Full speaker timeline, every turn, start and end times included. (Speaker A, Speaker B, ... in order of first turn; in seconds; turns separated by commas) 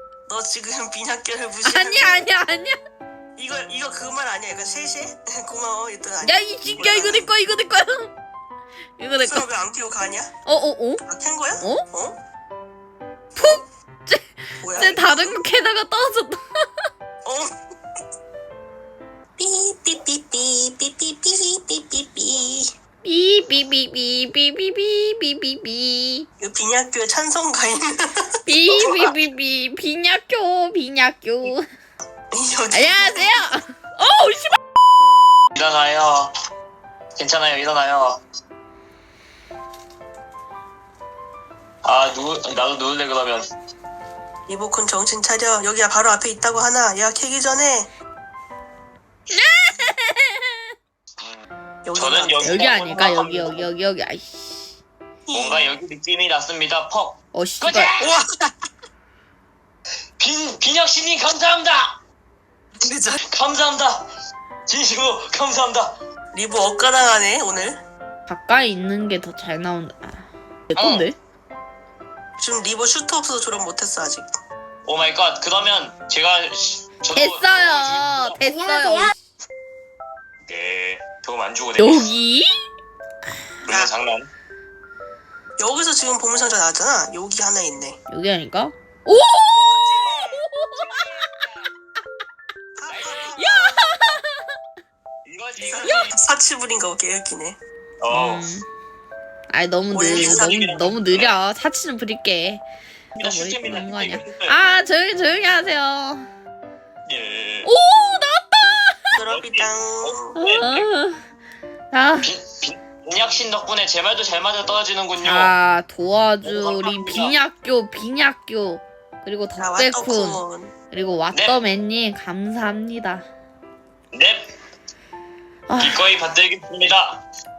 Speaker A: 0.3-2.2, Speaker B: 1.6-2.8, Speaker A: 3.4-7.3, Speaker B: 6.2-8.1, Speaker B: 9.0-9.5, Speaker A: 9.2-10.3, Speaker B: 10.4-11.0, Speaker A: 11.1-12.2, Speaker B: 11.6-11.8, Speaker B: 13.3-16.8, Speaker A: 14.6-15.4, Speaker A: 17.2-17.5, Speaker A: 19.4-22.7, Speaker B: 23.0-26.3, Speaker A: 26.4-28.8, Speaker B: 28.4-31.6, Speaker A: 32.3-33.5, Speaker B: 32.7-34.6, Speaker C: 35.5-36.3, Speaker C: 37.2-38.2, Speaker C: 41.8-43.5, Speaker A: 44.5-47.9, Speaker B: 49.3-50.7, Speaker C: 51.2-51.4, Speaker A: 51.8-52.7, Speaker C: 51.9-53.7, Speaker B: 52.4-54.7, Speaker A: 55.2-55.7, Speaker C: 55.3-58.1, Speaker B: 57.3-57.9, Speaker A: 58.0-58.5, Speaker C: 60.2-62.0, Speaker A: 62.8-63.2, Speaker C: 63.1-64.1, Speaker C: 64.7-66.0, Speaker A: 66.3-67.8, Speaker B: 68.3-71.2, Speaker C: 70.8-71.1, Speaker A: 72.4-74.2, Speaker C: 74.8-78.4, Speaker B: 77.1-79.2, Speaker C: 80.5-82.1, Speaker B: 81.8-82.6, Speaker C: 83.7-84.3, Speaker A: 85.6-88.0, Speaker B: 88.1-91.4, Speaker A: 89.7-90.5, Speaker A: 92.8-93.8, Speaker C: 92.9-93.4, Speaker B: 93.3-94.4, Speaker C: 95.2-96.1, Speaker A: 95.6-97.6, Speaker B: 95.8-96.1, Speaker C: 98.0-98.5, Speaker B: 98.1-98.7, Speaker B: 99.5-102.6, Speaker A: 99.9-100.6, Speaker C: 100.1-101.3, Speaker B: 103.1-106.3, Speaker C: 103.2-104.5, Speaker C: 107.0-107.7, Speaker B: 107.6-109.1, Speaker A: 109.2-110.4, Speaker C: 109.2-110.9, Speaker B: 110.4-111.2, Speaker B: 111.9-112.3, Speaker C: 112.2-115.5, Speaker B: 115.2-123.3, Speaker C: 116.4-117.3, Speaker A: 119.6-120.7, Speaker C: 121.3-121.6, Speaker C: 124.1-124.5, Speaker B: 125.7-126.1, Speaker C: 125.8-127.2